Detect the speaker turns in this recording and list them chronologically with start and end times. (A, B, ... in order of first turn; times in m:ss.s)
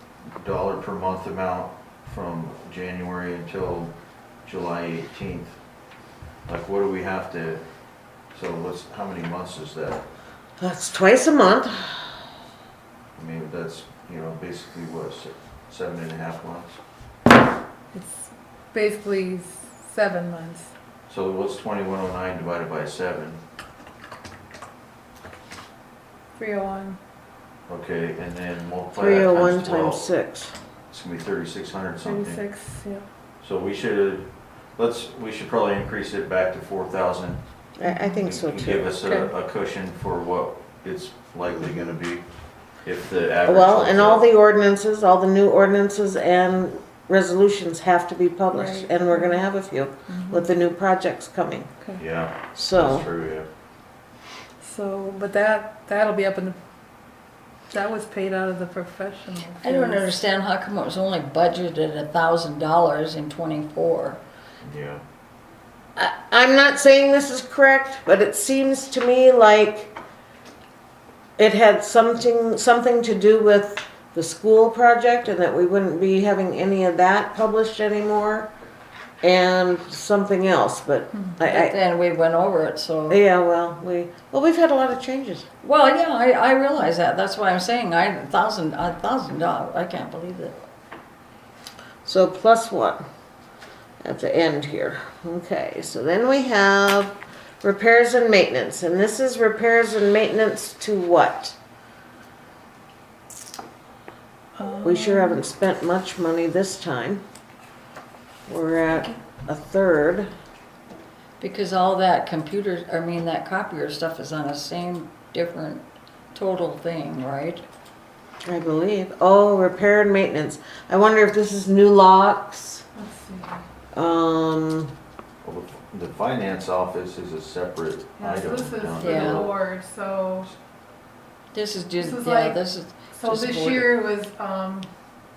0:00.4-0:05.5 A
0:06.5-0:07.6 A
0:08.3-0:10.0 A
0:10.6-0:12.1 B
0:13.1-0:16.8 A
0:17.9-0:20.7 C
0:21.1-0:23.4 A
0:26.4-0:27.0 C
0:27.7-0:30.0 A
0:28.9-0:30.5 B
0:30.9-0:32.4 A
0:32.0-0:33.0 C
0:33.4-0:37.4 A
0:37.8-0:38.9 B
0:37.8-0:38.1 C
0:38.1-0:42.2 A
0:39.0-0:39.3 C
0:42.8-0:44.2 A
0:43.4-0:51.7 B
0:48.5-0:49.4 C
0:50.1-0:50.4 C
0:52.0-0:53.5 A
0:52.5-0:53.1 B
0:54.6-0:56.6 C
0:57.7-1:00.1 C
0:59.6-1:04.2 D
1:04.6-1:05.0 A
1:06.0-1:10.0 B
1:11.4-1:18.5 B
1:19.2-1:21.8 B
1:21.4-1:23.2 D
1:23.1-1:25.5 B
1:25.6-1:30.6 D
1:32.0-1:33.0 B
1:34.0-1:41.5 B
1:44.6-1:45.4 C
1:44.8-1:47.2 B
1:48.5-1:50.3 B
1:51.4-1:57.6 D
1:58.4-2:02.8 B
2:02.9-2:03.6 C
2:03.9-2:04.9 B
2:05.4-2:09.5 A
2:08.2-2:10.5 C
2:09.0-2:09.5 D
2:11.5-2:13.9 D
2:12.0-2:12.6 C
2:13.1-2:14.9 C